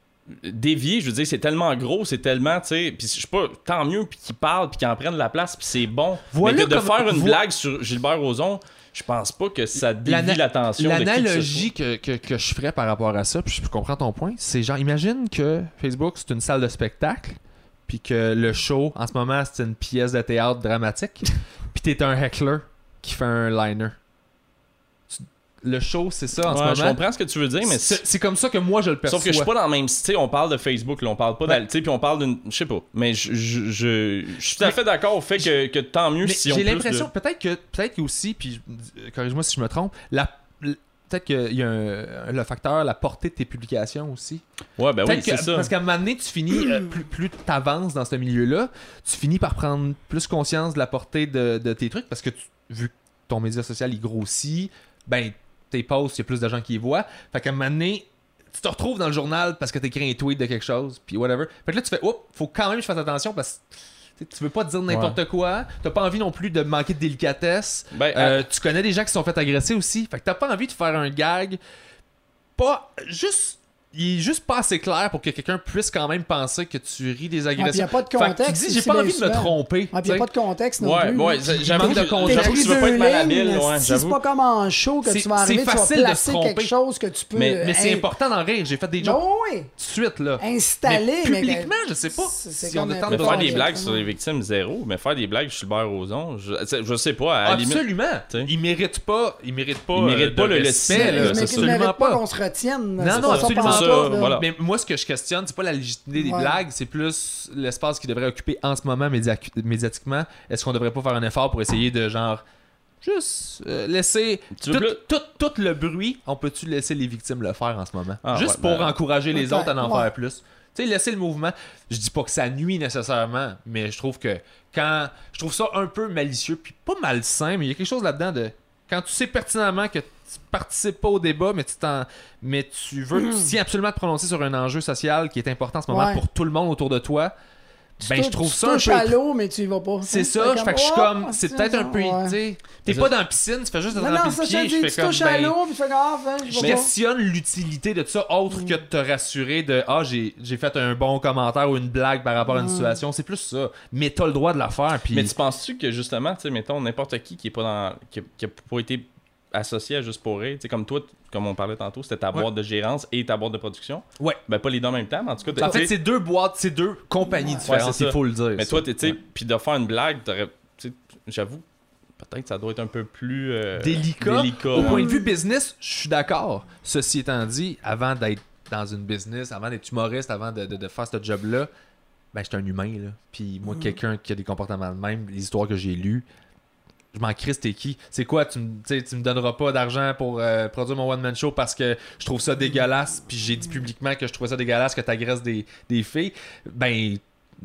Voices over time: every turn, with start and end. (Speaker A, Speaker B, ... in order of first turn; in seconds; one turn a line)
Speaker A: 0.3-11.7
Speaker B: 6.3-7.4
Speaker B: 10.0-23.9
Speaker B: 25.1-27.0
Speaker A: 26.5-28.0
Speaker B: 27.6-29.5
Speaker A: 29.1-37.1
Speaker B: 36.2-44.4
Speaker A: 44.8-45.7
Speaker B: 45.0-63.6
Speaker B: 64.2-71.6
Speaker A: 64.9-65.2
Speaker A: 67.9-68.4
Speaker B: 72.6-80.3
Speaker C: 77.6-88.0
Speaker A: 80.8-84.2
Speaker B: 81.4-82.9
Speaker B: 85.0-86.7
Speaker A: 87.3-87.6
Speaker B: 87.6-89.2
Speaker C: 89.0-89.7
Speaker B: 89.8-93.7
Speaker C: 90.4-94.1
Speaker A: 93.1-98.5
Speaker B: 97.4-102.2
Speaker A: 99.9-101.7
Speaker C: 100.9-104.3
Speaker B: 103.0-112.4
Speaker A: 103.1-104.4
Speaker C: 106.2-106.5
Speaker B: 113.0-137.3
Speaker A: 114.6-115.0
Speaker A: 118.2-118.9
Speaker C: 119.3-120.1
Speaker C: 133.1-133.5
Speaker C: 135.9-136.2
Speaker C: 138.0-142.3
Speaker B: 138.0-139.2
Speaker B: 140.0-145.5
Speaker C: 143.9-146.9
Speaker B: 146.4-155.3
Speaker C: 152.5-153.0
Speaker A: 155.1-165.9
Speaker B: 165.6-169.2
Speaker C: 167.3-167.7
Speaker A: 167.7-171.6
Speaker A: 172.2-175.1
Speaker B: 173.8-181.7
Speaker C: 174.8-175.3
Speaker B: 182.3-186.2
Speaker B: 187.1-197.2